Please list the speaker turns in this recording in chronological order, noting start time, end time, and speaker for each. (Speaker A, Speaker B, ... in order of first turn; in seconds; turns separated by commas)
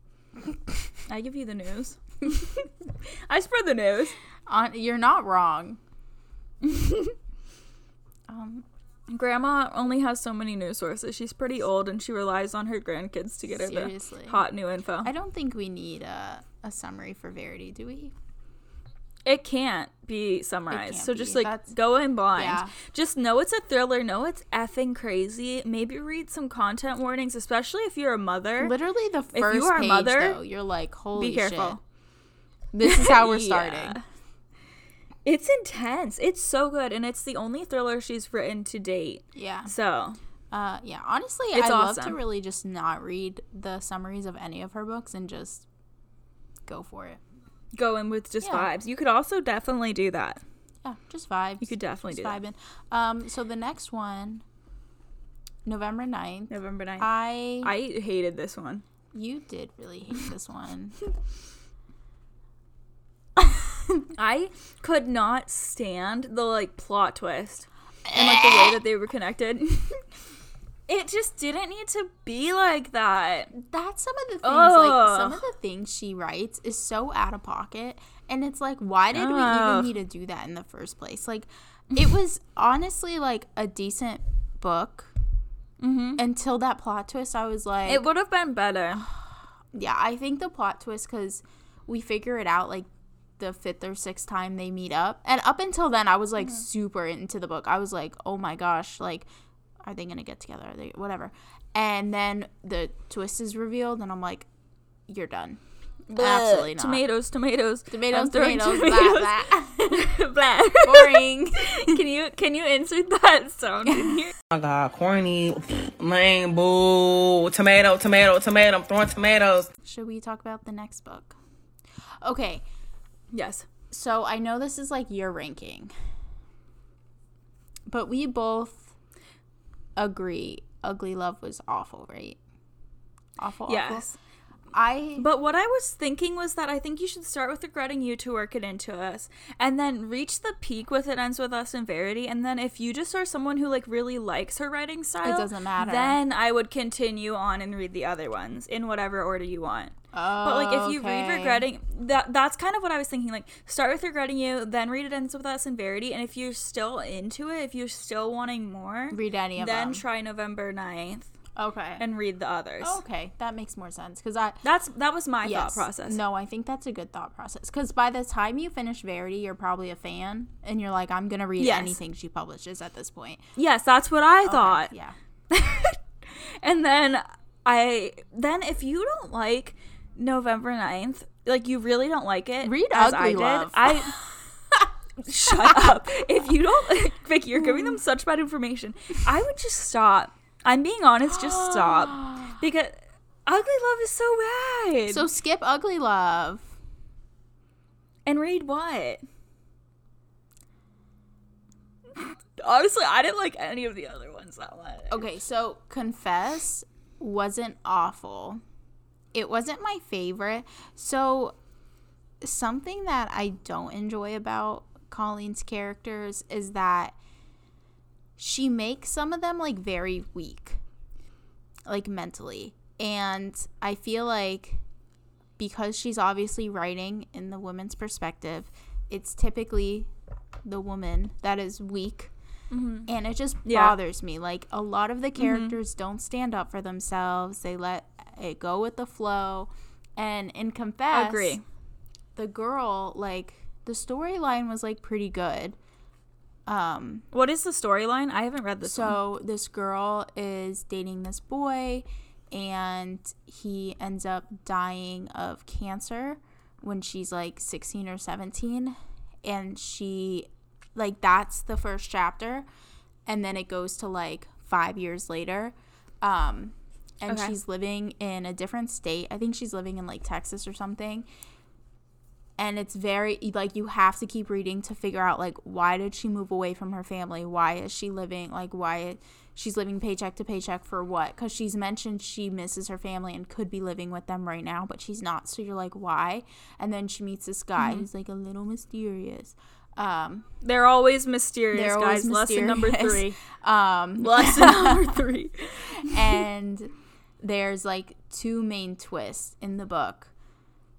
Speaker A: 1.1-4.2, Speaker B: 4.5-5.8, Speaker A: 6.6-7.2, Speaker B: 8.3-8.7, Speaker A: 9.1-15.1, Speaker B: 13.5-14.4, Speaker B: 15.0-18.1, Speaker A: 19.2-28.7, Speaker B: 20.7-21.7, Speaker B: 22.4-22.7, Speaker B: 28.6-31.8, Speaker A: 29.3-30.4, Speaker A: 31.1-31.8, Speaker B: 32.7-34.0, Speaker A: 32.8-34.0, Speaker A: 35.2-40.2, Speaker B: 39.4-39.7, Speaker B: 40.5-45.7, Speaker A: 41.5-42.2, Speaker B: 46.7-47.2, Speaker A: 47.7-50.4, Speaker B: 48.4-48.7, Speaker B: 50.8-54.4, Speaker A: 51.6-52.4, Speaker B: 55.6-57.7, Speaker A: 56.5-57.1, Speaker A: 57.6-58.8, Speaker B: 59.1-61.0, Speaker B: 63.4-64.0, Speaker A: 64.1-70.0, Speaker A: 70.9-73.5, Speaker B: 73.5-85.1, Speaker A: 74.4-75.4, Speaker A: 79.1-79.9, Speaker A: 85.8-86.2, Speaker B: 86.2-88.0, Speaker A: 87.9-89.1, Speaker B: 89.7-92.9, Speaker B: 93.4-99.3, Speaker B: 99.8-104.5, Speaker B: 105.1-105.6, Speaker A: 106.1-114.3, Speaker B: 106.2-107.0, Speaker B: 107.9-110.2, Speaker B: 110.8-112.0, Speaker C: 114.5-119.7, Speaker B: 119.8-121.3, Speaker B: 122.2-122.6, Speaker A: 123.3-123.7, Speaker B: 123.9-125.9, Speaker B: 127.9-128.9, Speaker B: 130.0-132.4, Speaker B: 133.4-134.1, Speaker A: 133.7-134.2, Speaker B: 134.7-135.3, Speaker A: 135.2-161.3, Speaker B: 145.2-146.2, Speaker B: 150.1-151.7, Speaker B: 159.1-160.0, Speaker B: 161.6-162.0, Speaker A: 162.0-163.0, Speaker B: 162.8-164.6, Speaker A: 164.6-166.2, Speaker B: 165.4-173.4, Speaker A: 171.6-172.0, Speaker A: 173.6-174.9, Speaker B: 174.4-175.2, Speaker A: 175.5-184.1, Speaker B: 182.6-184.9, Speaker A: 185.2-195.2, Speaker B: 185.5-185.9, Speaker B: 191.4-192.6, Speaker B: 195.1-196.7, Speaker A: 198.3-199.2, Speaker A: 202.2-205.2, Speaker B: 205.1-208.6, Speaker B: 209.3-211.6, Speaker B: 212.4-217.2, Speaker B: 218.4-220.8, Speaker B: 221.9-224.8, Speaker B: 225.6-230.1, Speaker B: 230.7-232.3, Speaker A: 232.7-233.1, Speaker B: 233.1-241.6, Speaker A: 233.7-233.9, Speaker A: 235.4-235.7, Speaker A: 241.1-241.6, Speaker B: 242.4-245.8, Speaker B: 246.7-247.3, Speaker A: 247.3-249.2, Speaker B: 248.8-262.6, Speaker B: 263.3-271.3, Speaker A: 267.3-267.5, Speaker B: 272.6-290.5, Speaker A: 287.8-288.1, Speaker A: 290.6-293.4, Speaker B: 291.7-295.2, Speaker A: 294.2-296.4, Speaker B: 296.0-300.3